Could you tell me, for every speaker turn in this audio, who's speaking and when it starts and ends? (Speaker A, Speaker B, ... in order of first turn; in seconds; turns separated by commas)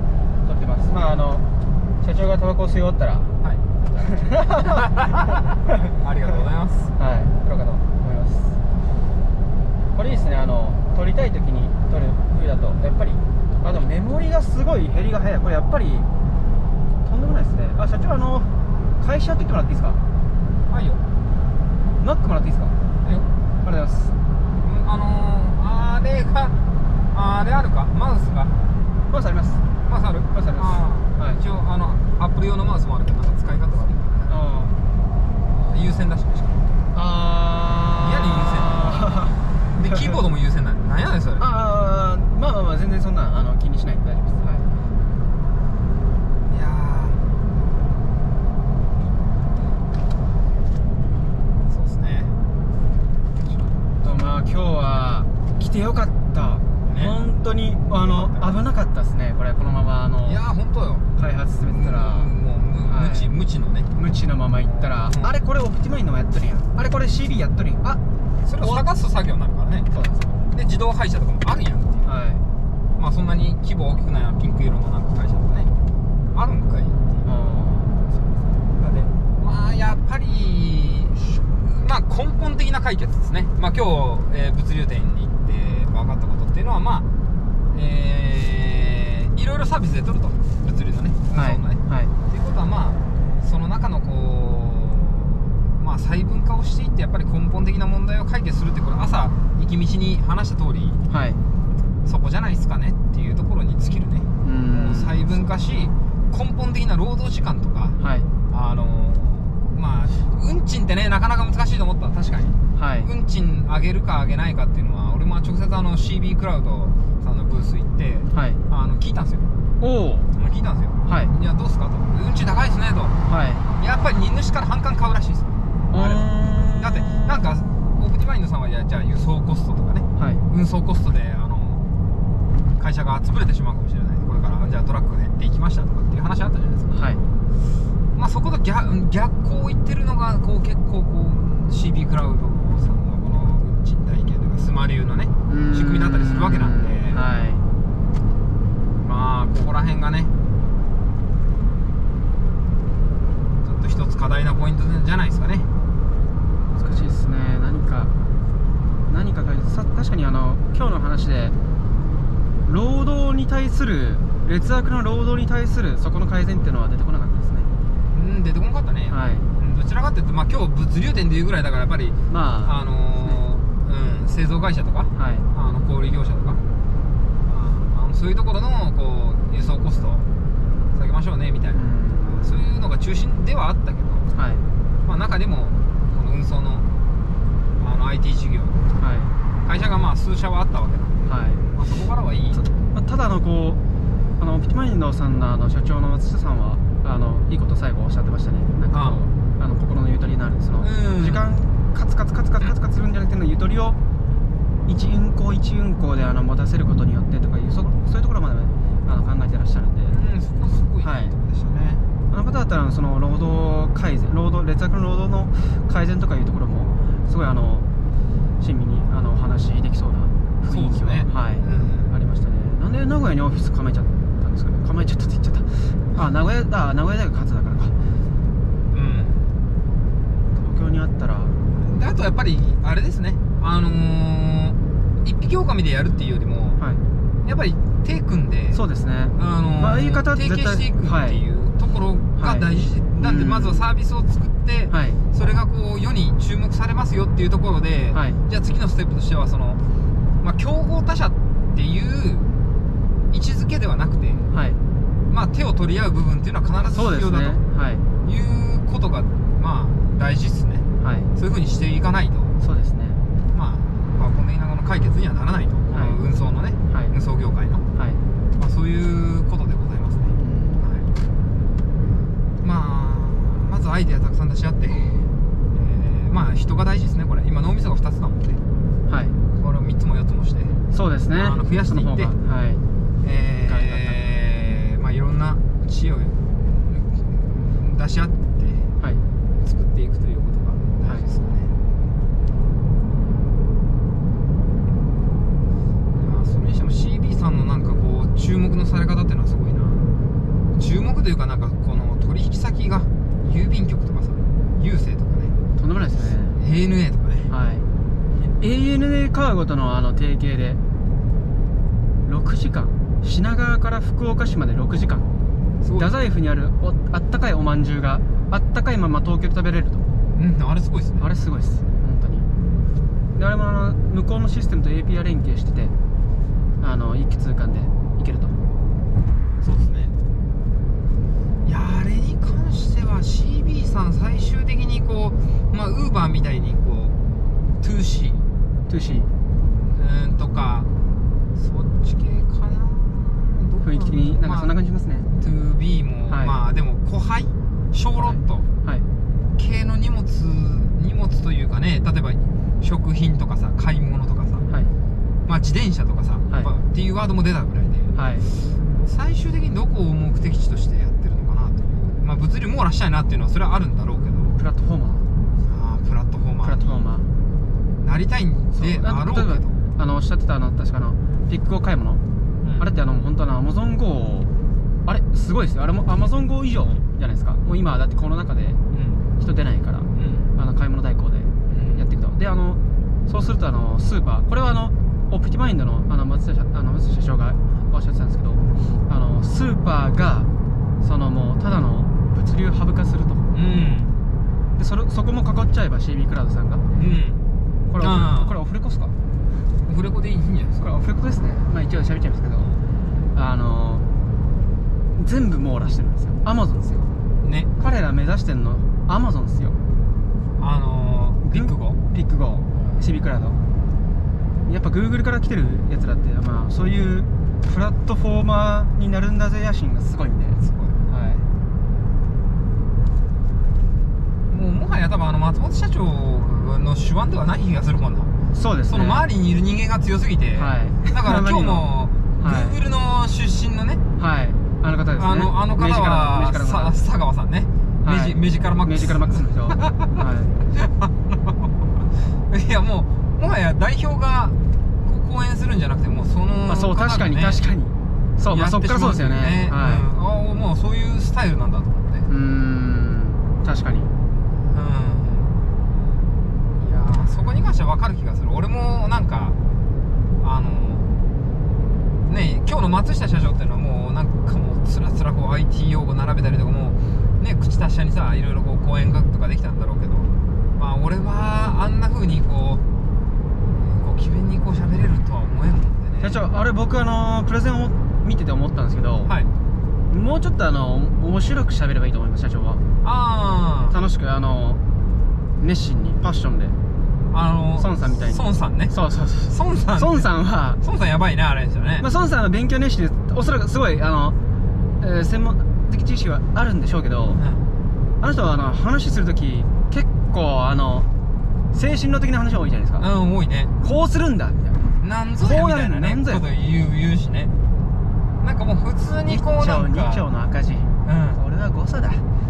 Speaker A: 0.4-1.4, Speaker A: 2.0-3.3, Speaker B: 3.4-3.7, Speaker A: 3.9-4.8, Speaker B: 4.6-5.4, Speaker B: 5.9-6.9, Speaker A: 7.0-8.6, Speaker A: 9.9-16.1, Speaker A: 17.0-20.0, Speaker B: 20.7-21.0, Speaker A: 22.0-22.8, Speaker B: 23.0-23.3, Speaker A: 23.6-24.2, Speaker B: 24.6-26.6, Speaker B: 27.1-28.6, Speaker A: 29.1-29.7, Speaker B: 29.9-34.4, Speaker A: 30.3-31.4, Speaker A: 34.3-34.8, Speaker B: 35.5-36.7, Speaker A: 36.9-40.2, Speaker B: 38.0-39.0, Speaker B: 39.7-41.5, Speaker A: 41.4-44.7, Speaker B: 46.5-47.3, Speaker B: 51.7-52.3, Speaker A: 53.8-60.4, Speaker B: 56.9-57.2, Speaker B: 58.0-58.6, Speaker B: 60.2-63.9, Speaker A: 61.2-62.3, Speaker A: 62.9-63.3, Speaker A: 64.0-68.0, Speaker B: 64.6-65.3, Speaker B: 68.4-70.0, Speaker A: 69.9-70.3, Speaker B: 70.5-72.1, Speaker A: 72.0-72.5, Speaker B: 73.0-75.7, Speaker B: 76.3-77.3, Speaker A: 77.2-78.5, Speaker B: 78.8-87.1, Speaker B: 87.7-101.0, Speaker A: 91.3-92.1, Speaker A: 101.1-101.4, Speaker B: 102.0-108.0, Speaker A: 104.4-105.3, Speaker A: 108.0-108.3, Speaker B: 108.5-119.5, Speaker A: 112.8-113.1, Speaker A: 118.3-118.6, Speaker A: 119.8-120.3, Speaker B: 120.3-123.2, Speaker A: 121.1-121.3, Speaker A: 123.3-123.7, Speaker B: 123.8-131.8, Speaker A: 125.9-127.7, Speaker A: 130.2-130.4, Speaker B: 132.8-137.0, Speaker A: 136.9-137.2, Speaker B: 138.2-147.2, Speaker A: 145.5-147.7, Speaker B: 149.0-150.3, Speaker B: 153.6-155.7, Speaker A: 156.8-158.1, Speaker A: 159.1-161.6, Speaker A: 162.7-167.7, Speaker B: 168.1-176.6, Speaker A: 169.1-169.5, Speaker A: 172.3-173.4, Speaker A: 175.2-175.5, Speaker B: 177.5-180.3, Speaker B: 180.9-184.3, Speaker A: 181.7-182.6, Speaker A: 184.3-184.7, Speaker B: 185.0-186.9, Speaker B: 187.8-188.8, Speaker A: 189.0-189.3, Speaker B: 189.7-191.2, Speaker A: 191.3-191.7, Speaker B: 191.7-192.6, Speaker A: 192.5-193.8, Speaker A: 194.4-204.0, Speaker B: 198.9-199.2, Speaker B: 200.8-201.5, Speaker A: 204.9-210.2, Speaker B: 210.1-212.0, Speaker A: 211.0-211.3, Speaker A: 212.3-217.9, Speaker A: 218.6-228.0, Speaker B: 220.7-222.1, Speaker B: 228.9-229.5, Speaker A: 230.5-231.6, Speaker B: 231.7-236.8, Speaker A: 236.8-237.0, Speaker B: 237.4-238.8, Speaker A: 238.7-241.4, Speaker B: 239.3-249.8, Speaker A: 242.4-243.9, Speaker A: 244.9-245.2, Speaker A: 248.1-248.4, Speaker B: 250.4-252.5, Speaker B: 253.3-254.5, Speaker A: 254.5-254.8, Speaker B: 255.3-257.6, Speaker A: 256.9-258.1, Speaker B: 258.2-262.6, Speaker A: 261.0-261.3, Speaker A: 262.6-263.2, Speaker B: 263.5-267.9, Speaker A: 265.9-266.2, Speaker A: 267.9-268.2, Speaker B: 268.6-271.1, Speaker A: 270.4-270.9, Speaker B: 272.6-278.6, Speaker A: 279.1-279.4, Speaker B: 279.5-280.8, Speaker A: 280.9-282.8, Speaker B: 281.4-282.3, Speaker B: 283.2-288.9, Speaker A: 283.7-284.2, Speaker B: 289.6-291.7, Speaker B: 296.1-300.1, Speaker B: 300.7-305.6, Speaker A: 305.8-306.6, Speaker B: 306.5-307.5, Speaker A: 307.5-307.9, Speaker A: 308.6-310.8, Speaker A: 312.2-315.3, Speaker B: 315.8-316.1, Speaker A: 315.9-320.1, Speaker B: 320.3-321.3, Speaker A: 321.2-322.5, Speaker A: 323.4-325.9, Speaker A: 326.8-328.6, Speaker B: 329.6-330.1, Speaker B: 331.6-337.2, Speaker B: 337.8-338.4, Speaker A: 338.9-339.3, Speaker B: 339.9-340.9, Speaker B: 341.6-344.7, Speaker A: 343.8-345.3, Speaker B: 345.4-348.7, Speaker A: 346.3-346.6, Speaker A: 348.2-349.1, Speaker B: 349.6-354.7, Speaker B: 355.5-358.1, Speaker A: 358.1-358.5, Speaker B: 359.0-364.5, Speaker A: 364.6-365.3, Speaker B: 365.6-367.1, Speaker A: 366.6-367.3, Speaker B: 368.0-369.8, Speaker A: 368.8-372.2, Speaker B: 372.6-372.9, Speaker A: 372.8-374.5, Speaker A: 375.1-378.8, Speaker B: 378.9-379.2, Speaker A: 379.4-390.5, Speaker B: 380.1-380.5, Speaker B: 381.7-382.1, Speaker A: 391.0-393.5, Speaker B: 393.5-394.2, Speaker A: 394.8-396.9, Speaker B: 396.9-397.4, Speaker A: 397.9-399.1, Speaker B: 398.0-398.6, Speaker B: 399.9-400.9, Speaker A: 400.8-402.8, Speaker A: 403.3-404.1, Speaker A: 405.1-407.1, Speaker B: 407.4-407.7, Speaker A: 407.8-409.8, Speaker B: 410.6-412.0, Speaker A: 411.4-413.6, Speaker B: 412.7-413.1, Speaker A: 414.6-421.5, Speaker B: 420.6-421.0, Speaker B: 424.5-428.3, Speaker A: 428.5-429.2, Speaker B: 428.9-434.0, Speaker A: 430.6-432.8, Speaker A: 434.2-437.0, Speaker B: 435.1-439.9, Speaker A: 438.0-440.6, Speaker B: 440.7-441.7, Speaker B: 442.5-447.6, Speaker A: 446.7-450.0, Speaker B: 448.5-452.3, Speaker A: 452.3-454.1, Speaker B: 454.6-455.6, Speaker B: 456.8-459.6, Speaker B: 460.4-461.1, Speaker B: 462.3-472.8, Speaker B: 473.7-476.4, Speaker A: 476.2-479.3, Speaker B: 479.2-479.5, Speaker A: 480.1-482.8, Speaker B: 483.0-484.0, Speaker A: 483.9-484.8, Speaker A: 485.6-486.8, Speaker B: 487.3-490.3, Speaker A: 487.8-490.8, Speaker B: 490.8-492.1, Speaker A: 492.0-494.4, Speaker A: 495.0-497.4, Speaker B: 497.3-497.7, Speaker A: 498.2-501.1, Speaker A: 501.7-503.1, Speaker B: 503.0-503.7, Speaker A: 503.8-504.9, Speaker B: 505.0-507.5, Speaker A: 505.4-506.4, Speaker B: 508.4-510.3, Speaker A: 509.3-512.2, Speaker B: 511.0-511.4